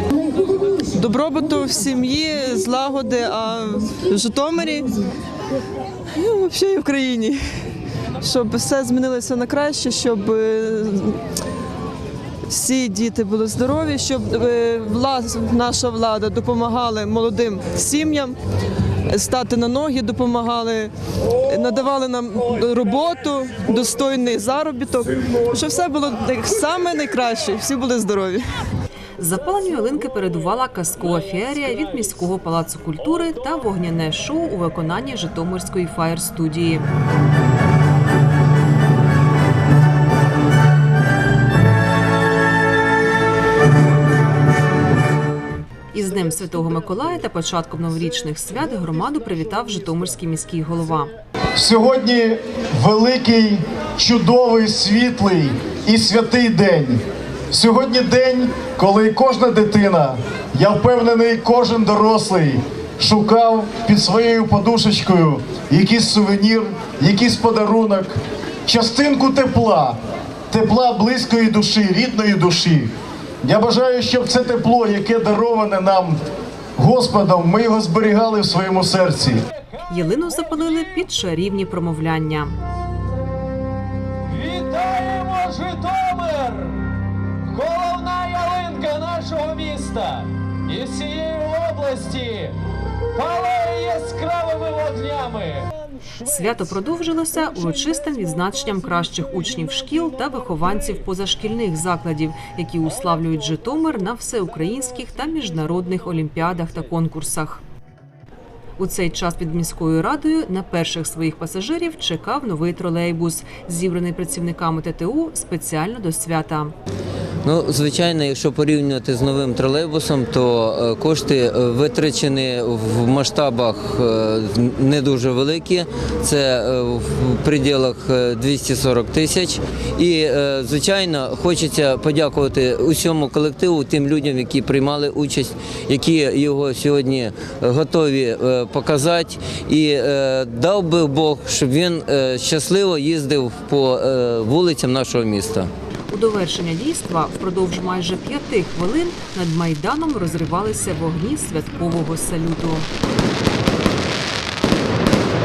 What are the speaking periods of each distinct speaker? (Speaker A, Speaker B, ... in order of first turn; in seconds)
Speaker A: 0.2-5.1, 6.1-7.4, 8.2-11.2, 12.5-18.4, 19.1-28.6
Speaker B: 29.2-36.9, 45.9-51.1, 79.9-82.6, 96.2-107.6, 108.8-116.7, 146.1-152.9
Speaker C: 51.6-57.0, 57.5-68.2, 68.7-70.0, 70.5-72.9, 73.4-76.2, 76.8-79.4
Speaker D: 84.2-86.9, 87.4-92.6, 93.1-95.7
Speaker E: 117.5-145.7